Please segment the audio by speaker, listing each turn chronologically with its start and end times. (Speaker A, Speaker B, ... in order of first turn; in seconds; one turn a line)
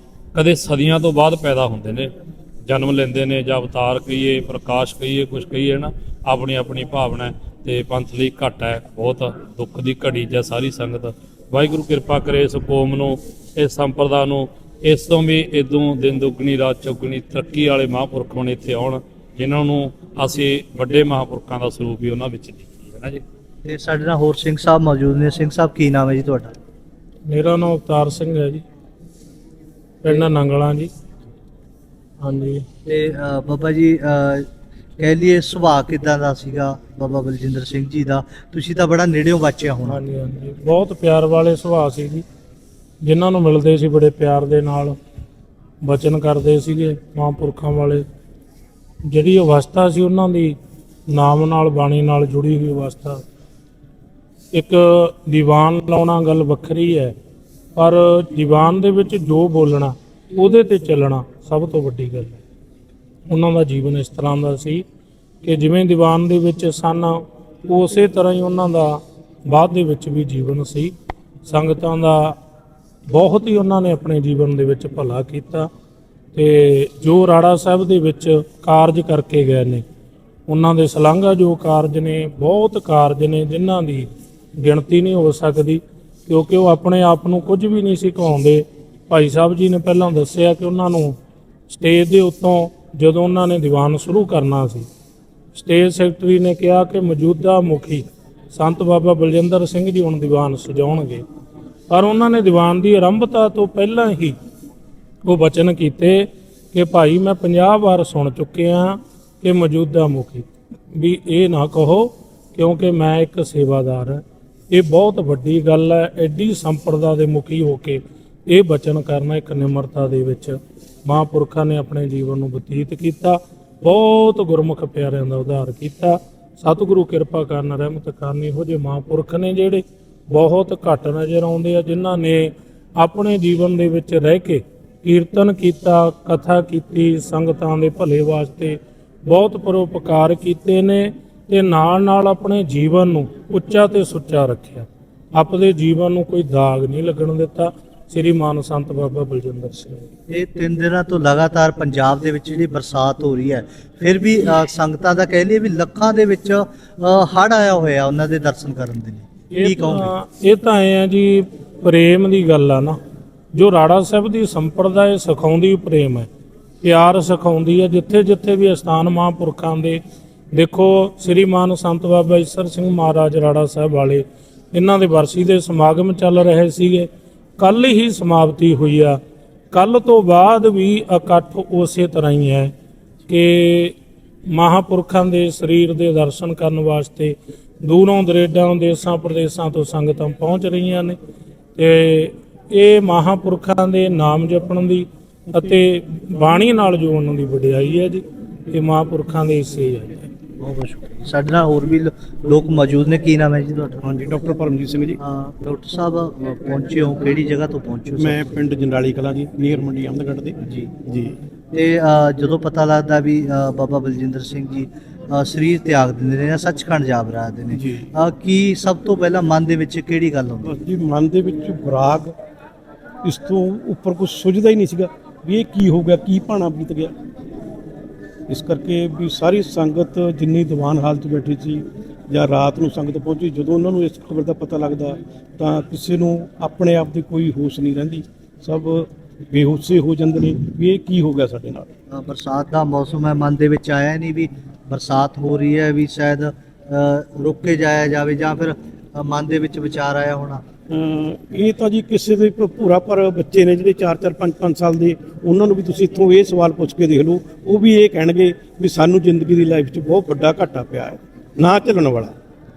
Speaker A: 0.3-2.1
Speaker A: 2.7-23.2
Speaker B: 23.6-26.5
Speaker C: 27.3-28.6
Speaker C: 30.0-30.9
Speaker C: 32.2-32.7
Speaker B: 32.9-34.5
Speaker B: 35.0-40.0
Speaker C: 39.9-42.3
Speaker C: 43.0-45.0
Speaker C: 45.8-48.1
Speaker C: 49.0-50.6
Speaker C: 51.1-53.2
Speaker C: 54.5-57.2
Speaker C: 57.8-62.4
Speaker C: 63.3-64.8
Speaker C: 65.4-70.9
Speaker C: 71.5-72.4
Speaker C: 73.1-75.7
Speaker C: 76.3-79.8
Speaker C: 80.5-91.2
Speaker C: 91.7-94.9
Speaker C: 95.5-101.3
Speaker C: 101.9-104.4
Speaker C: 105.2-150.1
Speaker B: 150.3-160.1
Speaker C: 159.6-163.0
Speaker C: 163.5-166.3
Speaker C: 166.8-179.2
Speaker C: 179.7-182.7
Speaker C: 183.3-184.0
Speaker C: 184.5-191.2
Speaker C: 191.8-200.3
Speaker B: 200.6-204.0
Speaker D: 204.0-205.2
Speaker B: 205.2-208.6
Speaker D: 208.2-211.4
Speaker B: 210.6-210.9
Speaker B: 211.7-220.7
Speaker D: 217.7-218.1
Speaker D: 220.6-222.3
Speaker D: 223.2-227.1
Speaker D: 228.5-241.9
Speaker B: 242.1-250.6
Speaker D: 250.9-262.4